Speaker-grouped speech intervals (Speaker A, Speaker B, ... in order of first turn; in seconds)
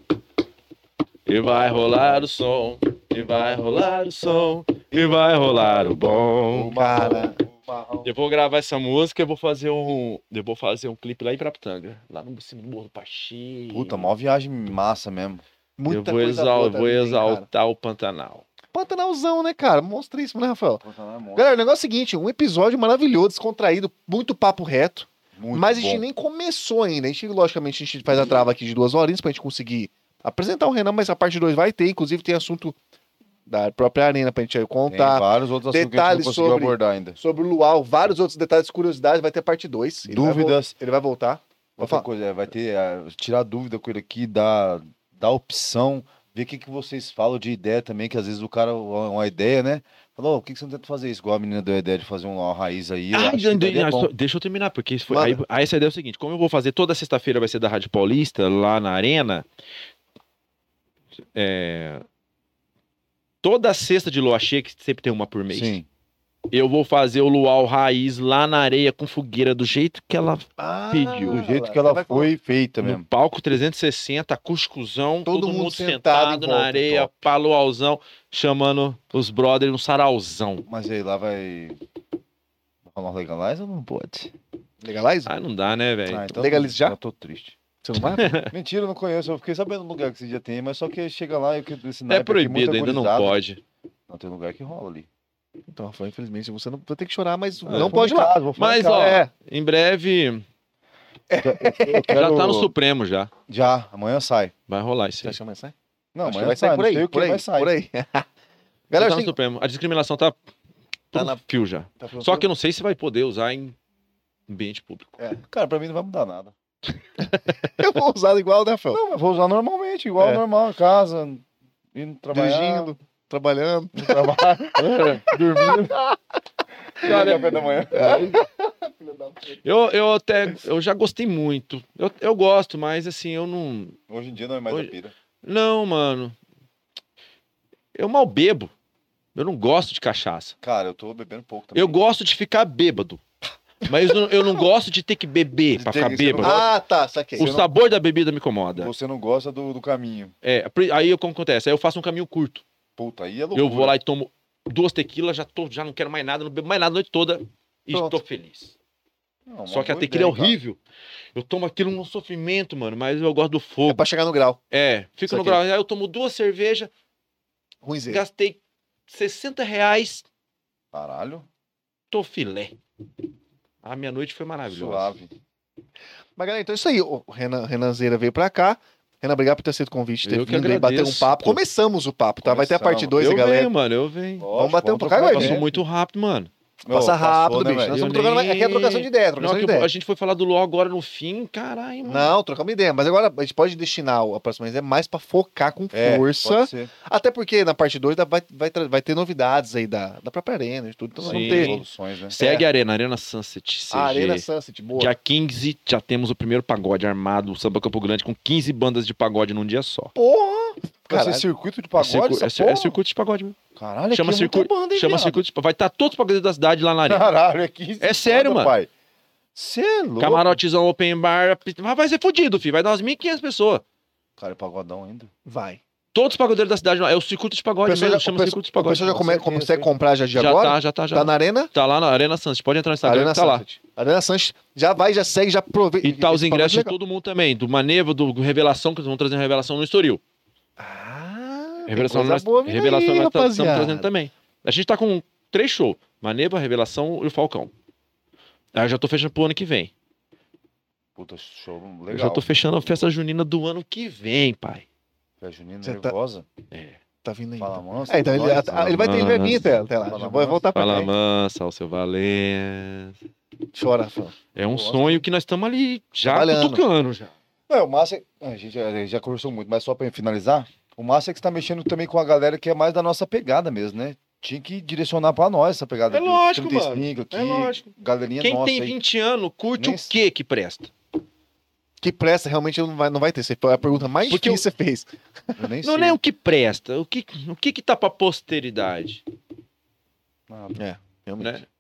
Speaker A: 1.3-6.8, 8.0-14.1, 15.9-18.4, 53.1-59.5, 61.4-62.0, 63.4-65.8, 66.5-71.4, 72.8-80.7, 85.3-86.3, 88.0-88.5, 92.1-93.6, 97.7-100.5, 102.1-103.3, 104.7-105.4, 109.0-110.4, 111.1-113.8, 114.5-115.2, 124.8-125.7, 127.0-128.2, 129.6-134.0, 134.7-136.4, 137.9-138.7, 139.3-140.5, 141.8-143.2, 143.8-146.6, 147.4-148.9, 150.4-152.7, 153.6-158.8, 159.7-160.8, 161.3-164.0, 164.7-166.9, 168.1-170.3, 172.1-172.8, 173.8-175.2, 180.2-181.6, 183.2-184.5, 185.3-186.5, 187.9-192.4, 201.2-210.1, 212.0-213.6, 214.1-217.3, 218.0-218.7, 220.2-223.8, 226.1-229.2, 230.3-233.6, 236.0-240.2, 241.9-247.7, 248.8-249.9, 252.1-254.9, 256.7-257.0, 259.0-259.8, 260.8-263.2, 264.6-267.3, 276.1-277.9, 278.4-280.9, 284.3-284.7, 285.8-289.2
Speaker B: 5.5-8.1, 13.7-15.4, 20.8-21.5, 25.4-26.1, 34.9-37.2, 40.1-40.7, 41.8-54.1, 65.5-65.9, 71.3-73.1, 80.7-81.8, 82.9-84.3, 86.1-87.6, 88.5-93.4, 94.1-95.1, 97.7-99.2, 101.4-102.7, 103.5-104.5, 106.1-107.8, 115.5-116.5, 118.9-122.9, 123.9-126.0, 127.0-128.4, 134.1-135.1, 140.6-142.0, 145.8-146.7, 147.4-147.7, 148.8-150.3, 153.0-154.0, 159.5-160.6, 170.9-171.5, 174.7-175.3, 182.4-183.3, 184.4-185.7, 186.8-188.0, 195.9-196.9, 201.2-202.4, 210.2-213.0, 213.8-215.4, 217.1-218.9, 219.6-220.6, 224.4-225.3, 229.1-229.9, 251.2-253.1, 255.4-256.5, 257.6-259.4, 260.0-261.1, 264.6-265.2, 267.7-279.0, 279.8-280.1, 285.6-286.2, 290.5-290.8
Speaker C: 6.7-7.4, 15.8-17.5, 18.7-20.9, 21.4-32.8, 33.5-42.1, 70.6-72.3, 75.3-77.3, 84.8-85.3, 86.3-87.0, 87.8-88.3, 95.7-99.3, 101.3-102.2, 105.2-108.3, 108.9-109.3, 111.1-111.4, 112.0-112.5, 117.2-119.0, 122.3-124.8, 125.6-126.2, 127.9-129.6, 146.4-147.5, 157.9-158.2, 163.9-164.6, 165.3-165.6, 167.8-168.2, 176.4-183.7, 184.5-185.7, 186.9-189.9, 192.1-201.8, 202.4-202.7, 203.9-205.1, 211.1-211.4, 225.5-225.8, 227.9-231.7, 233.0-236.9, 240.8-244.1, 255.8-256.1, 257.2-261.1, 263.7-264.3, 266.2-266.8, 282.0-285.1, 290.8-291.6